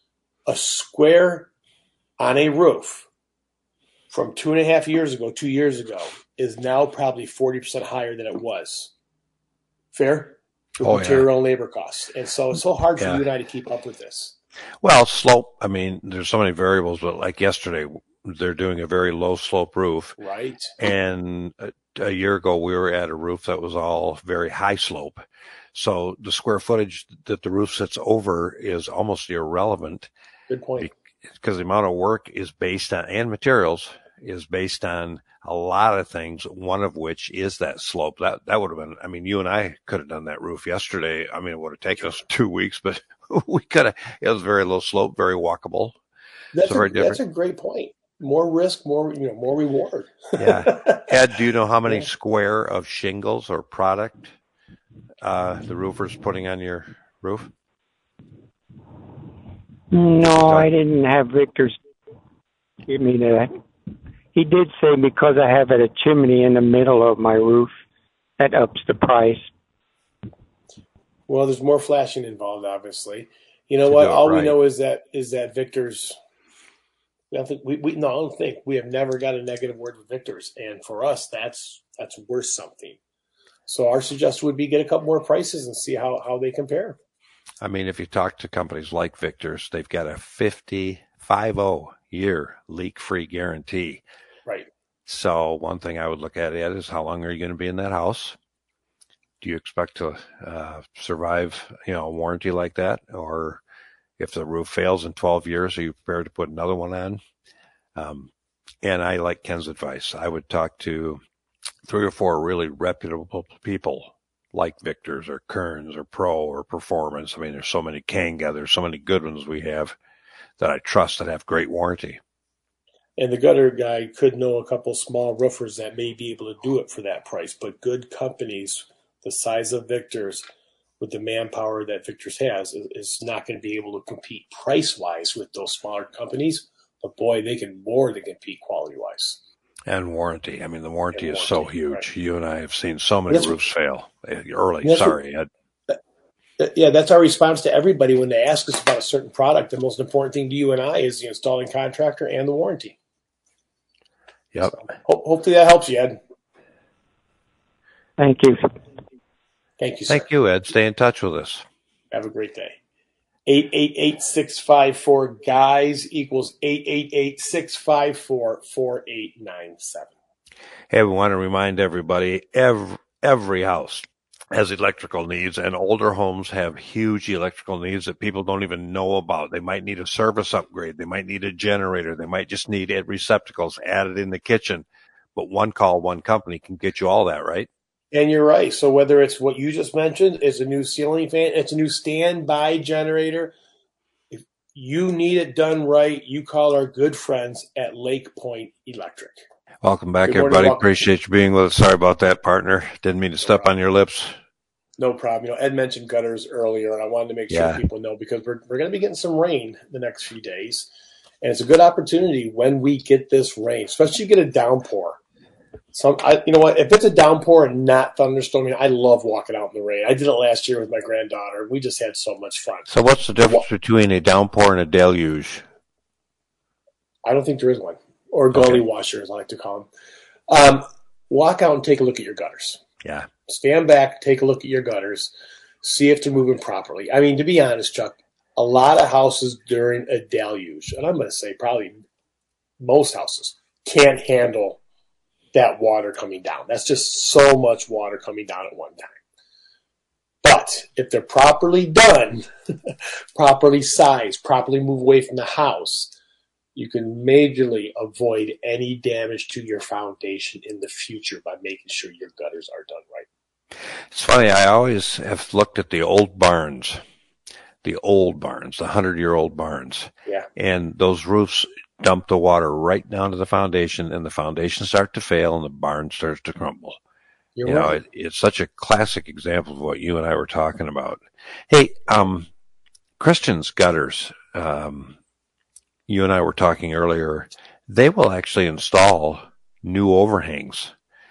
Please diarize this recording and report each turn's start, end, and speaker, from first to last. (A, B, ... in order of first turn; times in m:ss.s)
0:00.4-0:01.5 A
0:02.2-0:03.1 A
0:04.1-0:08.9 A
0:09.9-0:14.3 A
0:10.8-0:11.3 B
0:14.8-0:20.2 B
0:20.2-0:20.8 A
0:20.8-0:30.1 B
0:30.5-0:30.9 A
0:30.8-0:46.0 B
0:46.5-0:51.1 A
0:46.6-0:47.2 B
0:50.3-0:54.3 B
0:55.2-0:57.5 B
0:59.9-1:01.8 C
1:00.4-1:00.7 B
1:02.8-1:03.5 C
1:04.3-1:07.7 C
1:08.4-1:09.5 C
1:11.3-1:16.1 A
1:13.9-1:14.6 B
1:17.3-1:23.0 A
1:23.7-1:27.0 A
1:27.6-1:34.0 B
1:35.0-1:38.4 B
1:39.4-1:43.6 B
1:44.2-1:47.2 B
1:47.9-1:48.3 B
1:48.8-1:51.2 B
1:51.8-2:00.0 B
2:00.6-2:02.2 B
2:03.2-2:10.4 A
2:11.0-2:19.4 A
2:19.9-2:25.5 B
2:21.1-2:22.0 A
2:23.3-2:23.6 A
2:24.8-2:25.2 A
2:26.6-2:33.0 A
2:34.5-2:34.8 B
2:34.6-2:36.2 A
2:38.2-2:38.7 C
2:39.8-2:40.2 A
2:40.1-2:41.6 B
2:42.1-2:42.8 A
2:43.5-2:50.1 A
2:50.9-3:07.7 B
3:08.1-3:13.5 A
3:14.3-3:19.4 A
3:19.8-3:24.4 B
3:20.2-3:20.9 A
3:25.0-3:30.9 A
3:27.5-3:27.8 B
3:31.4-3:35.2 A
3:35.9-3:43.6 A
3:42.9-3:45.6 B
3:47.2-3:49.9 A
3:48.5-3:48.8 B
3:50.5-3:52.8 A
3:53.0-3:53.3 B
3:53.5-4:02.0 A
4:02.8-4:04.8 A
4:05.5-4:09.2 A
4:10.4-4:16.1 A
4:16.7-4:23.3 A
4:24.1-4:27.0 B
4:27.8-4:37.0 B
4:37.6-4:38.0 A
4:37.6-4:42.5 B
4:43.2-4:45.2 B
4:46.1-4:50.9 B